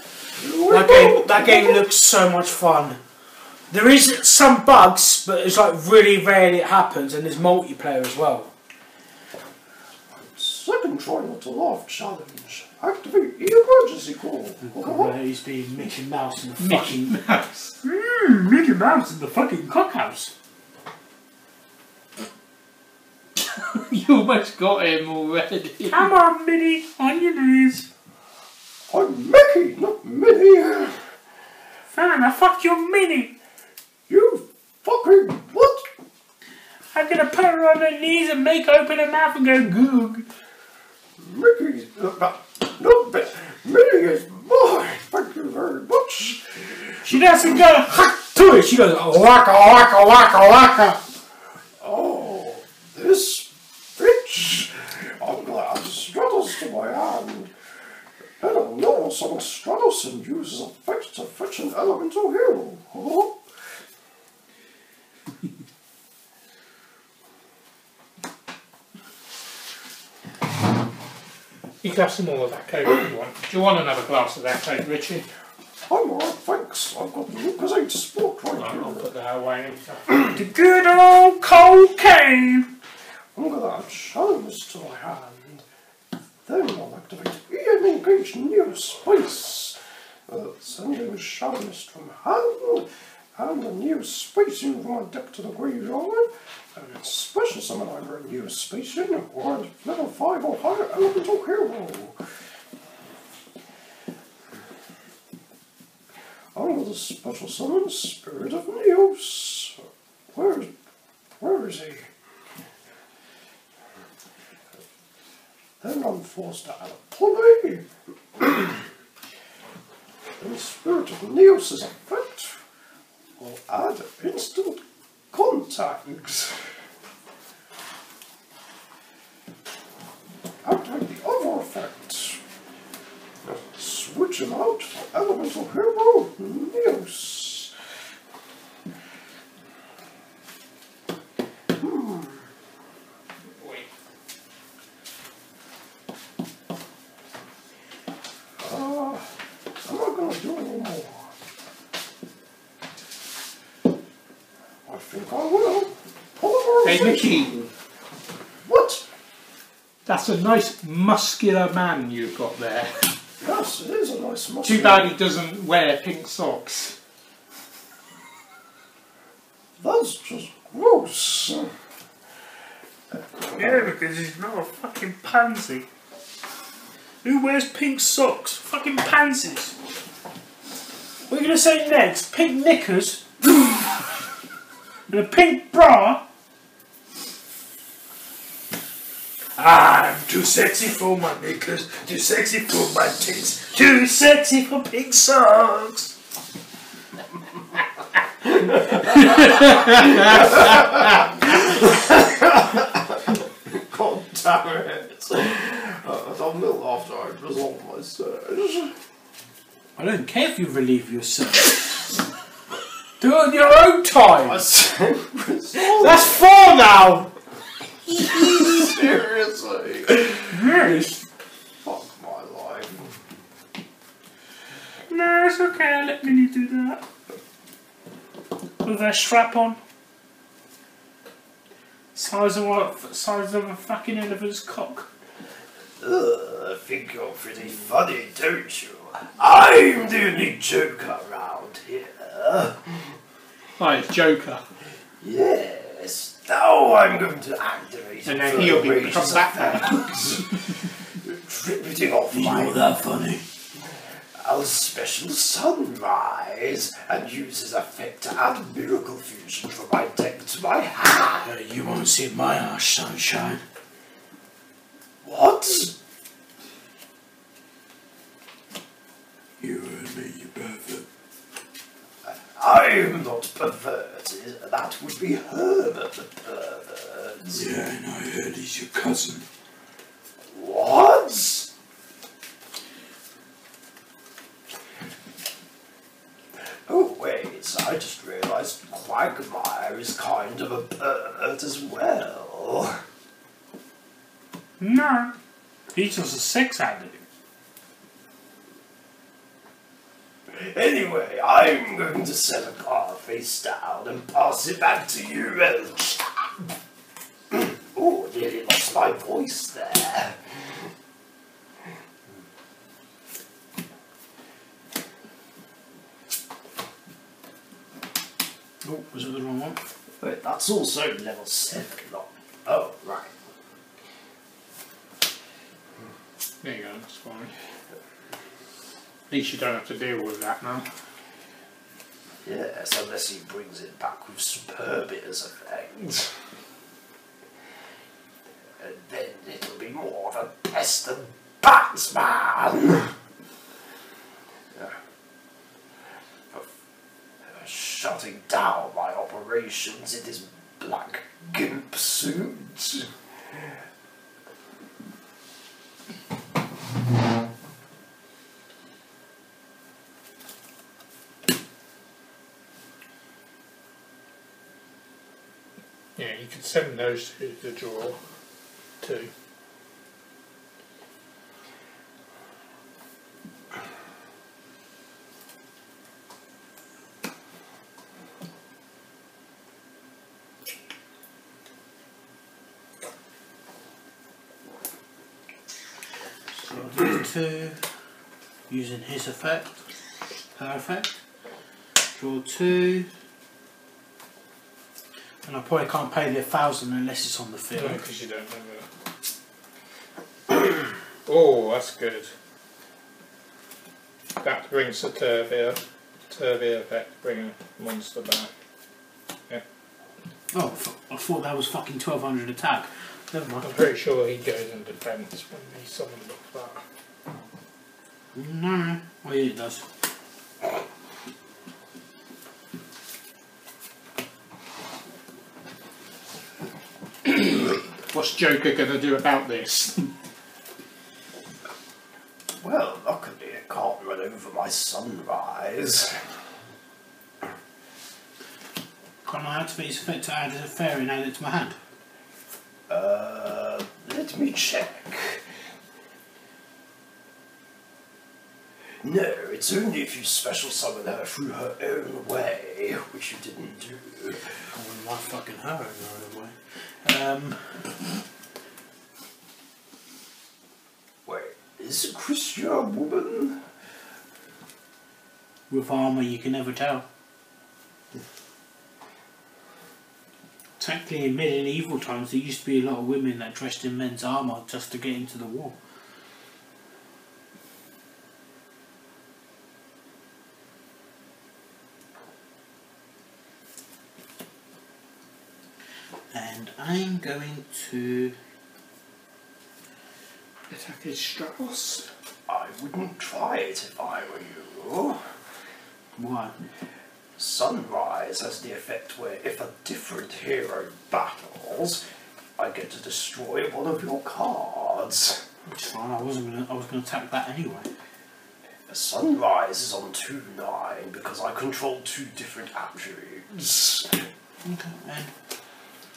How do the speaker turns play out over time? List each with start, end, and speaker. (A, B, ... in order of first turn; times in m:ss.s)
0:00.4-0:01.8 A
0:00.7-0:03.0 B
0:03.7-0:08.5 B
0:10.1-0:15.1 A
0:14.6-0:17.2 B
0:16.6-0:17.7 C
0:17.8-0:20.3 B
0:23.4-0:26.1 C
0:25.9-0:27.9 B
0:28.9-0:31.0 A
0:31.9-0:33.3 B
0:34.1-0:35.9 A
0:36.9-0:40.3 B
0:41.2-0:47.0 A
0:47.0-0:51.0 B
0:51.8-0:57.5 A
0:58.4-1:03.4 A
1:11.8-1:15.3 C
1:15.9-1:19.1 A
1:18.6-1:20.4 C
1:20.3-1:22.7 B
1:23.4-1:25.7 A
1:26.5-1:42.2 A
1:46.6-1:50.7 A
1:51.4-1:52.1 A
1:55.8-1:58.9 A
2:00.4-2:02.6 A
2:03.4-2:06.7 A
2:10.6-2:12.4 A
2:13.4-2:17.7 A
2:21.8-2:22.5 A
2:23.6-2:23.9 C
2:28.6-2:29.3 A
2:29.8-2:31.3 A
2:34.9-2:37.7 A
2:36.8-2:37.6 C
2:38.7-2:39.0 A
2:40.1-2:43.1 C
2:43.4-2:45.2 A
2:44.6-2:47.0 C
2:49.8-2:51.7 A
2:53.1-2:53.9 A
2:53.6-2:55.9 B
2:57.2-2:59.8 B
3:01.3-3:03.7 B
3:05.1-3:06.2 B
3:09.6-3:16.1 B
3:18.4-3:29.0 A
3:19.5-3:20.6 C
3:30.0-3:32.0 B
3:33.2-3:34.7 B
3:34.4-3:36.4 A
3:35.8-3:37.3 B
3:38.1-3:39.0 B
3:38.2-3:40.6 A
3:40.5-3:41.2 B
3:41.8-3:43.2 A
3:45.1-3:47.0 B
3:48.8-3:49.8 B
3:52.2-3:55.1 B
3:56.0-4:03.1 A
4:03.8-4:04.6 C
4:05.2-4:12.8 A
4:08.2-4:10.1 C
4:12.3-4:13.4 B
4:13.9-4:21.5 A
4:21.4-4:23.6 B
4:25.2-4:26.0 A
4:29.6-4:31.0 B
4:32.2-4:37.7 A
4:37.5-4:39.4 B
4:40.5-4:41.7 A
4:46.6-4:53.0 A
4:54.8-4:55.3 B
4:55.9-4:57.2 B
5:00.5-5:06.5 A
5:07.5-5:10.8 A
5:18.8-5:19.8 B
5:20.2-5:23.4 A
5:26.6-5:27.5 C
5:29.3-5:30.9 C
5:32.4-5:36.4 A
5:38.8-5:43.2 A
5:44.7-5:45.0 A
5:47.4-5:53.8 A
6:06.2-6:08.2 C
6:09.0-6:09.3 C
6:26.6-6:27.8 B
6:28.7-6:29.8 B
6:30.6-6:31.2 B
6:32.2-6:33.1 B
6:35.4-6:38.0 B
6:37.8-6:38.9 C
6:41.3-6:42.3 C
6:44.4-6:45.8 C
6:46.3-6:48.5 C
6:50.5-6:53.7 B
6:53.6-6:56.8 C
6:58.3-6:59.9 B
7:07.3-7:10.1 C
7:12.6-7:16.2 A
7:19.2-7:21.8 B
7:22.9-7:25.5 A
7:29.0-7:34.5 A
7:34.7-7:37.9 B
7:41.3-7:43.6 A
7:45.7-7:47.0 B
7:50.8-7:55.8 B
8:06.3-8:08.4 B
8:10.7-8:12.1 C
8:12.5-8:15.3 A
8:16.2-8:16.6 B
8:17.4-8:22.0 A
8:22.6-8:25.4 A
8:25.7-8:27.9 B
8:28.9-8:34.3 A
8:34.6-8:35.3 B